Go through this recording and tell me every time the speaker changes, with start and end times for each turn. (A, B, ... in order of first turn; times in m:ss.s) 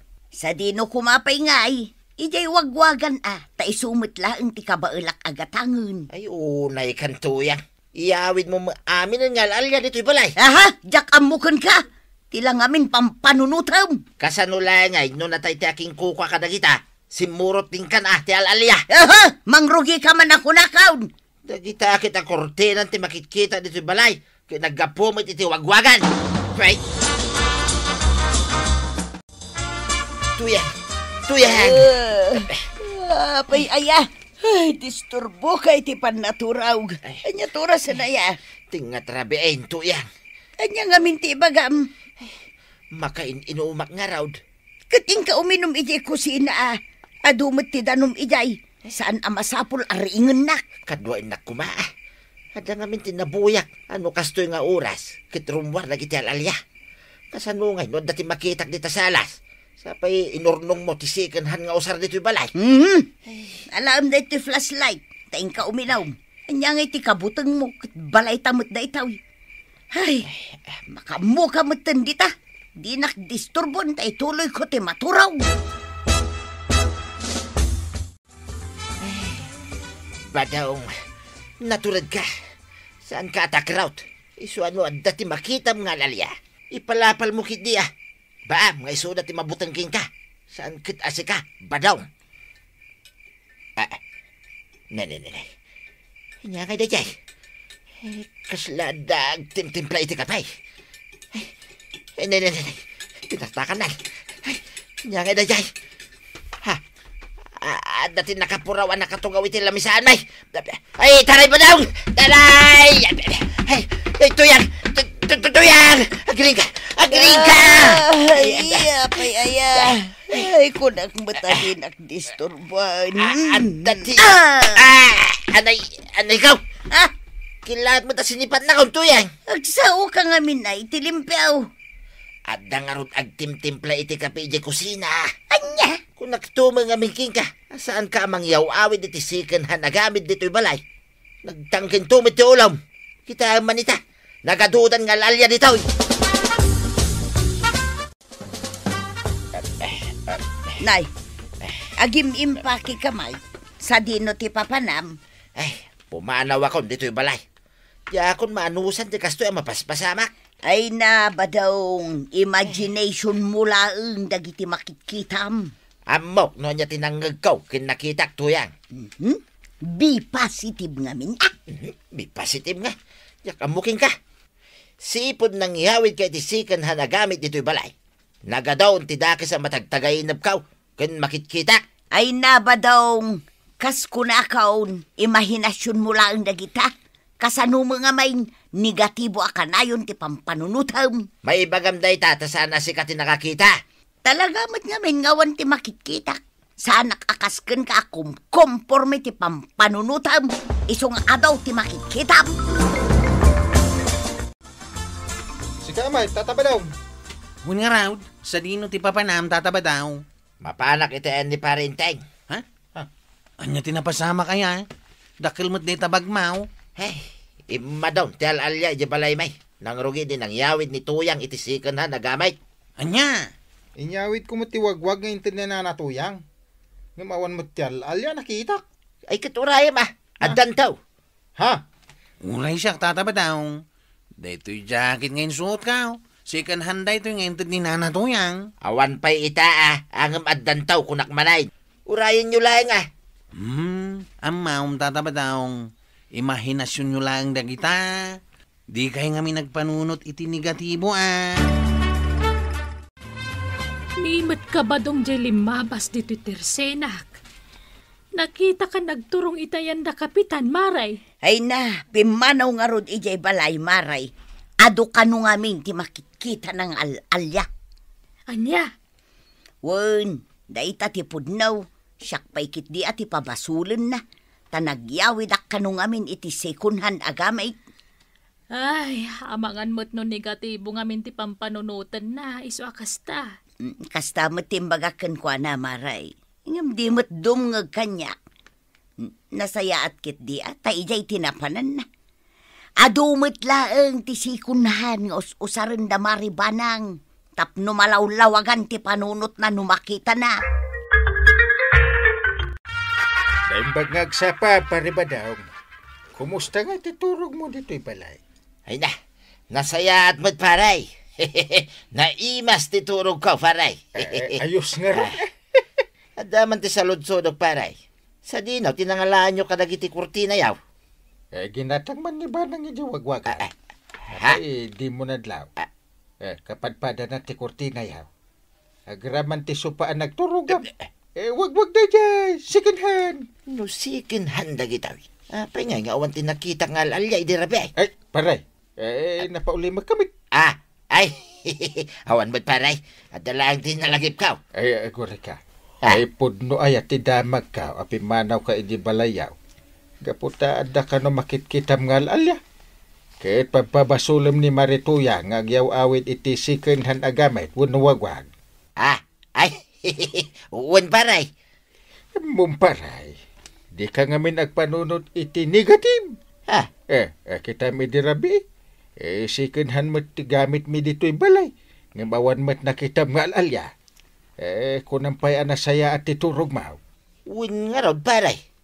0:00.4-0:06.1 A
0:06.1-0:10.4 B
0:10.4-0:14.0 A
0:14.2-0:18.8 B
0:18.9-0:21.1 A
0:21.5-0:26.8 B
0:30.4-0:30.7 B
0:31.3-0:32.6 B
0:31.4-0:38.4 A
0:38.7-0:40.1 B
0:40.6-0:41.9 A
0:42.9-0:44.4 B
0:44.9-0:50.6 A
0:50.9-0:51.9 B
0:52.6-0:56.6 B
0:57.3-1:02.5 B
1:02.6-1:03.1 A
1:03.7-1:09.2 A
1:09.9-1:10.3 A
1:10.9-1:15.4 A
1:19.0-1:19.5 B
1:20.3-1:20.9 B
1:21.6-1:22.3 B
1:23.0-1:27.9 B
1:28.5-1:32.1 B
1:34.9-1:35.5 B
1:36.4-1:37.2 B
1:38.0-1:40.5 B
1:42.2-1:45.7 B
1:47.6-2:00.5 B
1:57.1-2:04.9 A
2:01.4-2:01.7 B
2:03.2-2:06.6 B
2:07.6-2:09.3 B
2:09.5-2:11.7 A
2:12.5-2:15.3 B
2:15.5-2:16.0 A
2:16.2-2:20.8 B
2:21.4-2:25.8 B
2:29.6-2:30.8 B
2:30.8-2:31.1 A
2:32.0-2:35.2 A
2:35.6-2:37.4 B
2:38.1-2:40.3 B
2:40.7-2:45.7 A
2:46.1-2:48.7 B
2:49.0-2:51.5 A
2:51.7-2:54.1 B
2:55.0-2:57.9 B
2:58.5-3:01.8 B
3:02.1-3:11.3 A
3:11.4-3:13.8 B
3:14.2-3:22.6 A
3:25.8-3:26.9 C
3:27.6-3:30.2 D
3:30.6-3:32.2 B
3:33.6-3:34.9 D
3:35.4-3:36.7 D
3:37.0-3:42.6 B
3:43.0-3:43.5 D
3:44.0-3:46.4 C
3:47.2-3:48.8 C
3:49.3-3:51.0 B
3:52.4-3:53.8 D
3:54.4-3:58.7 D
3:58.8-4:03.1 B
4:03.6-4:08.4 D
4:08.9-4:11.6 D
4:14.2-4:17.4 E
4:18.4-4:21.2 E
4:21.4-4:24.3 A
4:24.8-4:27.7 A
4:28.5-4:28.9 E
4:29.8-4:34.2 A
4:34.7-4:37.8 A
4:38.7-4:43.6 E
4:43.8-4:48.4 A
4:49.2-4:52.0 A
4:53.0-5:00.5 A
5:03.7-5:05.7 C
5:06.4-5:08.4 C
5:08.9-5:09.1 B
5:09.7-5:14.6 B
5:14.2-5:15.8 C
5:16.4-5:20.8 B
5:21.5-5:23.6 C
5:24.3-5:25.7 C
5:26.4-5:28.3 C
5:29.1-5:33.5 C
5:33.7-5:37.9 B
5:38.0-5:40.3 C
5:40.5-5:44.6 B
5:44.8-5:49.5 C
5:50.2-5:52.6 C
5:53.4-5:58.5 C
5:59.0-6:01.5 B
6:02.4-6:03.4 C
6:04.0-6:06.4 C
6:07.1-6:08.6 C
6:09.2-6:13.9 C
6:14.6-6:17.0 C
6:17.5-6:18.6 B